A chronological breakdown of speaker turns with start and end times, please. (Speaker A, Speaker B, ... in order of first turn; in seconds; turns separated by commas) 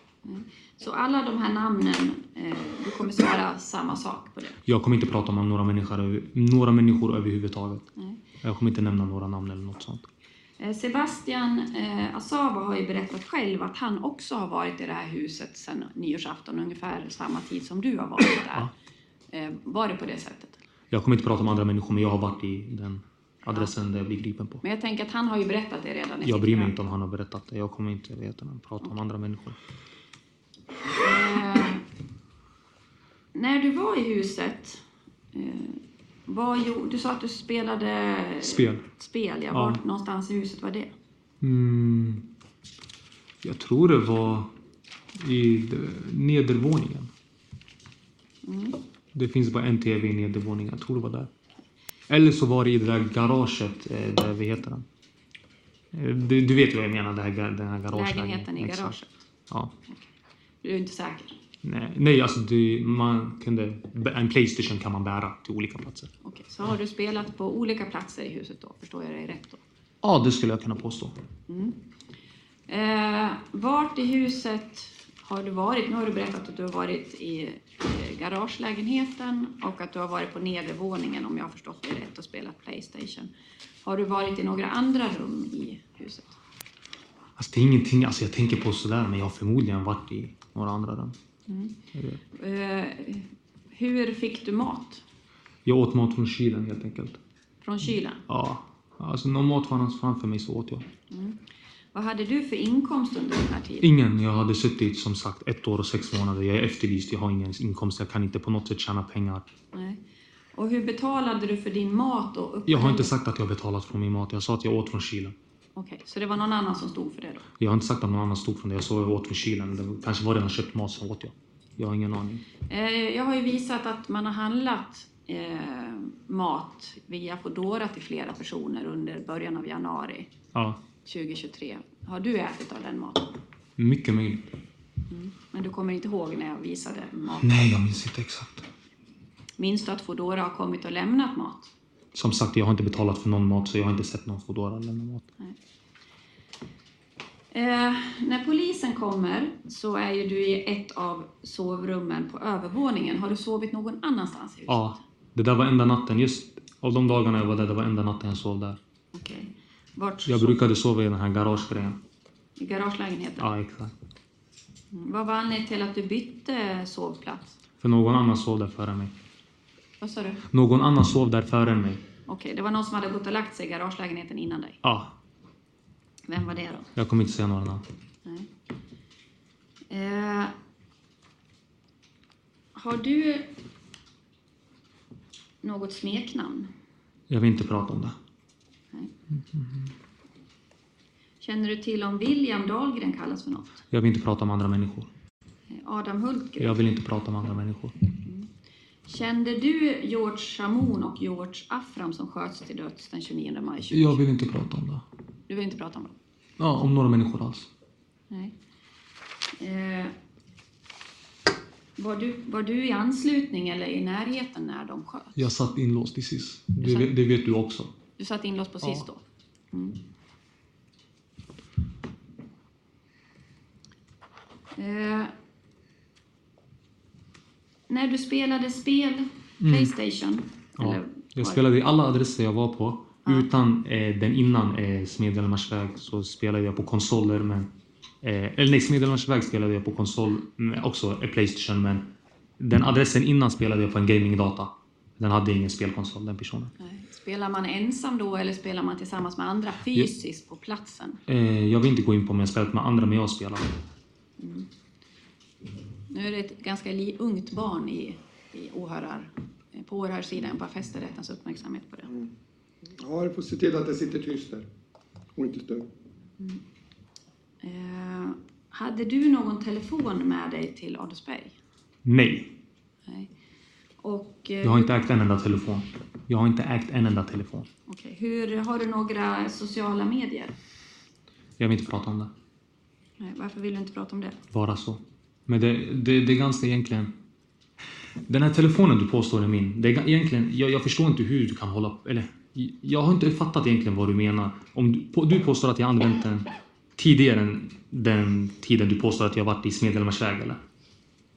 Speaker A: 0.2-4.6, Speaker B: 4.7-7.9, Speaker A: 8.0-8.2, Speaker B: 8.4-10.1, Speaker A: 10.6-18.7, Speaker A: 19.3-20.6, Speaker B: 20.9-24.6, Speaker A: 24.6-26.7, Speaker B: 26.2-29.6, Speaker A: 31.0-31.8, Speaker A: 33.3-40.9, Speaker B: 38.4-38.9, Speaker B: 39.5-39.8, Speaker B: 41.4-42.3, Speaker B: 43.4-44.5, Speaker B: 45.1-47.1, Speaker A: 48.4-48.8, Speaker B: 49.1-51.3, Speaker B: 52.1-54.9, Speaker B: 55.9-59.0, Speaker A: 57.9-59.2, Speaker B: 59.5-59.7, Speaker A: 60.6-61.4, Speaker B: 61.6-66.1, Speaker A: 66.2-69.6, Speaker B: 70.0-71.2, Speaker A: 71.5-71.8, Speaker A: 72.7-83.3, Speaker A: 83.8-86.4, Speaker B: 87.4-91.2, Speaker A: 91.5-91.8, Speaker B: 91.9-92.2, Speaker A: 92.3-95.0, Speaker B: 95.6-97.2, Speaker A: 97.6-98.2, Speaker B: 98.3-100.9, Speaker A: 101.1-101.4, Speaker A: 101.9-103.9, Speaker B: 103.8-109.5, Speaker A: 109.7-110.0, Speaker A: 110.5-113.1, Speaker B: 112.7-115.3, Speaker A: 115.8-117.5, Speaker B: 117.6-122.4, Speaker A: 122.7-130.3, Speaker B: 130.5-130.8, Speaker A: 131.0-133.3, Speaker B: 133.8-134.5, Speaker A: 135.1-137.5, Speaker B: 137.4-138.7, Speaker A: 139.6-141.7, Speaker B: 142.1-145.3, Speaker A: 147.5-155.0, Speaker B: 154.7-158.8, Speaker A: 159.1-160.6, Speaker B: 160.3-162.0, Speaker A: 162.6-163.4, Speaker B: 163.4-163.9, Speaker A: 164.9-167.6, Speaker B: 167.8-169.1, Speaker A: 170.0-170.4, Speaker B: 170.5-172.0, Speaker A: 172.3-174.8, Speaker B: 174.8-175.1, Speaker A: 176.3-176.9, Speaker B: 176.9-177.8, Speaker A: 179.9-180.5, Speaker A: 182.7-183.5, Speaker A: 185.6-186.7, Speaker B: 187.3-188.1, Speaker B: 189.3-189.9, Speaker A: 191.4-193.8, Speaker B: 193.9-195.1, Speaker A: 195.7-196.8, Speaker B: 196.6-197.9, Speaker A: 198.2-198.5, Speaker A: 199.1-204.2, Speaker B: 203.9-205.0, Speaker A: 205.5-206.1, Speaker B: 206.6-207.7, Speaker A: 209.6-210.1, Speaker A: 212.0-215.4, Speaker B: 215.3-217.9, Speaker A: 216.8-217.1, Speaker A: 218.2-220.0, Speaker A: 224.8-225.3, Speaker A: 227.9-231.6, Speaker B: 229.6-229.9, Speaker B: 230.8-237.7, Speaker B: 238.2-246.7, Speaker A: 246.8-251.2, Speaker B: 251.3-253.8, Speaker A: 254.4-254.7, Speaker A: 256.1-262.1, Speaker C: 263.0-264.7, Speaker C: 265.4-265.9, Speaker A: 267.6-271.5, Speaker B: 272.0-272.6, Speaker A: 274.0-274.9, Speaker B: 274.6-277.7, Speaker A: 277.9-280.5, Speaker B: 281.6-282.3, Speaker A: 283.2-284.4, Speaker B: 284.5-287.1, Speaker B: 288.3-300.6